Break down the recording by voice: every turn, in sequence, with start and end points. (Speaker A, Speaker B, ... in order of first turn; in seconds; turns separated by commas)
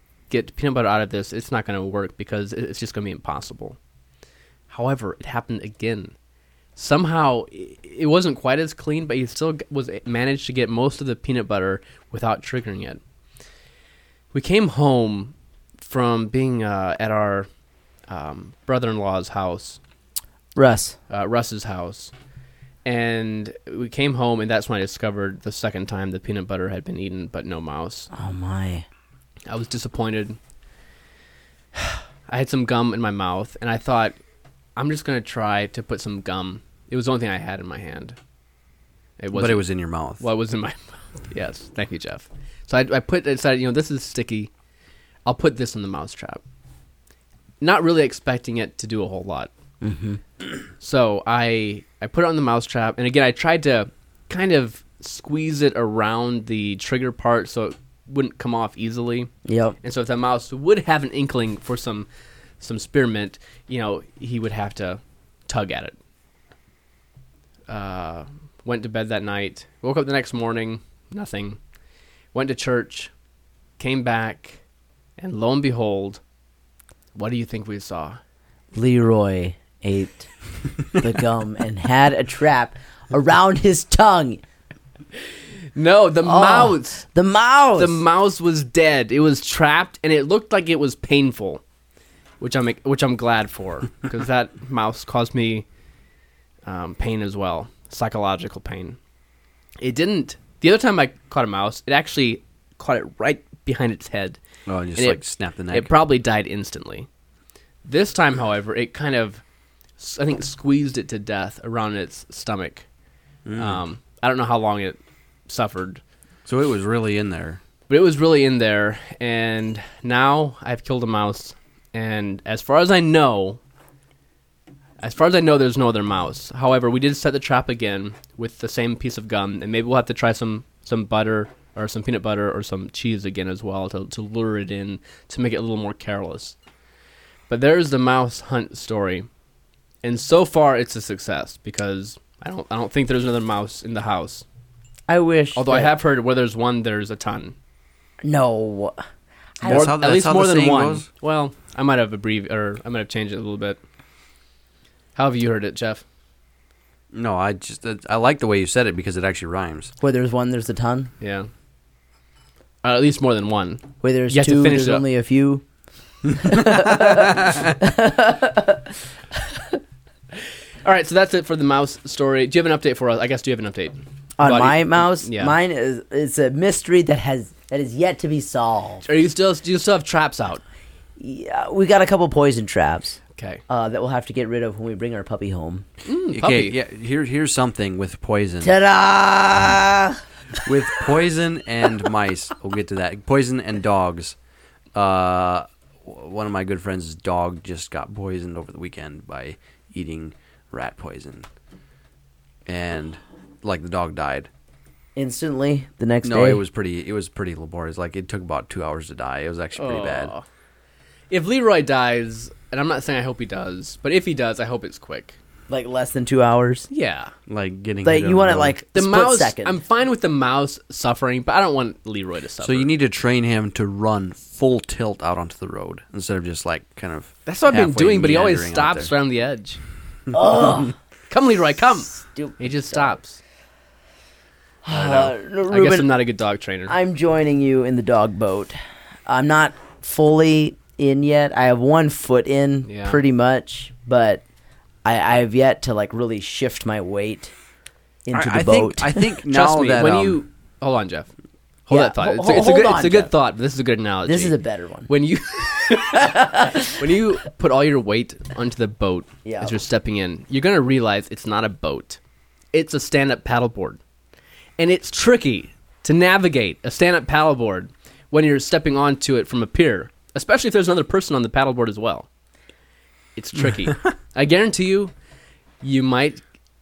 Speaker A: 0.3-3.8, Speaker A: 4.7-6.2, Speaker A: 6.8-13.0, Speaker A: 14.3-17.5, Speaker A: 18.1-19.8, Speaker B: 20.6-21.0, Speaker A: 21.1-22.1, Speaker A: 22.9-28.1, Speaker B: 28.1-28.9, Speaker A: 29.5-30.4, Speaker A: 31.8-34.2, Speaker A: 34.8-38.2, Speaker A: 39.2-39.6, Speaker C: 39.3-40.2, Speaker A: 40.2-44.5, Speaker A: 45.2-46.4, Speaker A: 47.6-49.5, Speaker B: 49.8-50.2, Speaker A: 50.8-59.3, Speaker B: 59.5-59.8, Speaker A: 59.8-62.1, Speaker A: 62.6-66.0, Speaker A: 67.7-71.6, Speaker A: 72.3-73.1, Speaker A: 73.8-74.6, Speaker A: 75.2-76.2, Speaker A: 77.2-78.2, Speaker B: 78.7-80.3, Speaker B: 80.9-84.4, Speaker A: 85.8-87.0, Speaker B: 86.2-88.0, Speaker A: 87.8-91.6, Speaker A: 92.4-95.7, Speaker A: 96.7-99.0, Speaker A: 99.8-104.4, Speaker C: 104.7-105.9, Speaker A: 105.0-107.1, Speaker A: 107.8-109.4, Speaker A: 110.0-112.9, Speaker C: 113.5-113.8, Speaker A: 113.6-116.0, Speaker C: 116.5-117.6, Speaker A: 117.9-123.6, Speaker A: 125.0-136.6, Speaker A: 137.5-139.3, Speaker A: 140.0-144.5, Speaker B: 145.1-145.9, Speaker A: 145.6-147.6, Speaker B: 148.2-149.0, Speaker B: 149.6-149.9, Speaker C: 149.6-151.1, Speaker A: 149.6-153.8, Speaker A: 155.2-156.0, Speaker C: 157.1-159.9, Speaker B: 160.0-161.1, Speaker A: 161.2-161.5, Speaker A: 162.8-165.1, Speaker B: 164.0-165.7, Speaker B: 166.3-169.8, Speaker C: 166.5-167.6, Speaker A: 170.8-175.6, Speaker B: 174.4-179.0, Speaker A: 179.0-180.6, Speaker B: 181.2-185.9, Speaker A: 183.4-183.6, Speaker A: 186.1-186.8, Speaker C: 186.3-188.8, Speaker B: 188.6-190.2, Speaker C: 190.6-194.3, Speaker C: 194.9-201.5, Speaker C: 202.7-204.5, Speaker B: 205.2-206.6, Speaker C: 206.2-210.3, Speaker A: 209.8-210.4, Speaker A: 211.3-215.4, Speaker B: 215.7-216.9, Speaker A: 216.9-217.3, Speaker C: 217.5-218.8, Speaker B: 218.0-219.8, Speaker A: 218.9-222.9, Speaker C: 222.6-229.1, Speaker A: 227.5-229.8, Speaker B: 230.3-230.9, Speaker A: 231.3-233.4, Speaker B: 232.1-233.2, Speaker B: 234.8-236.1, Speaker A: 234.9-236.9, Speaker B: 236.9-244.4, Speaker A: 242.9-243.2, Speaker B: 245.0-247.5, Speaker B: 248.3-249.4, Speaker C: 248.3-250.4, Speaker A: 249.5-251.3, Speaker A: 251.9-262.2, Speaker B: 251.9-253.3, Speaker B: 254.3-255.1, Speaker B: 256.0-256.9, Speaker B: 259.4-259.8, Speaker A: 262.7-264.0, Speaker A: 264.8-272.3, Speaker A: 273.4-275.1, Speaker A: 275.8-276.4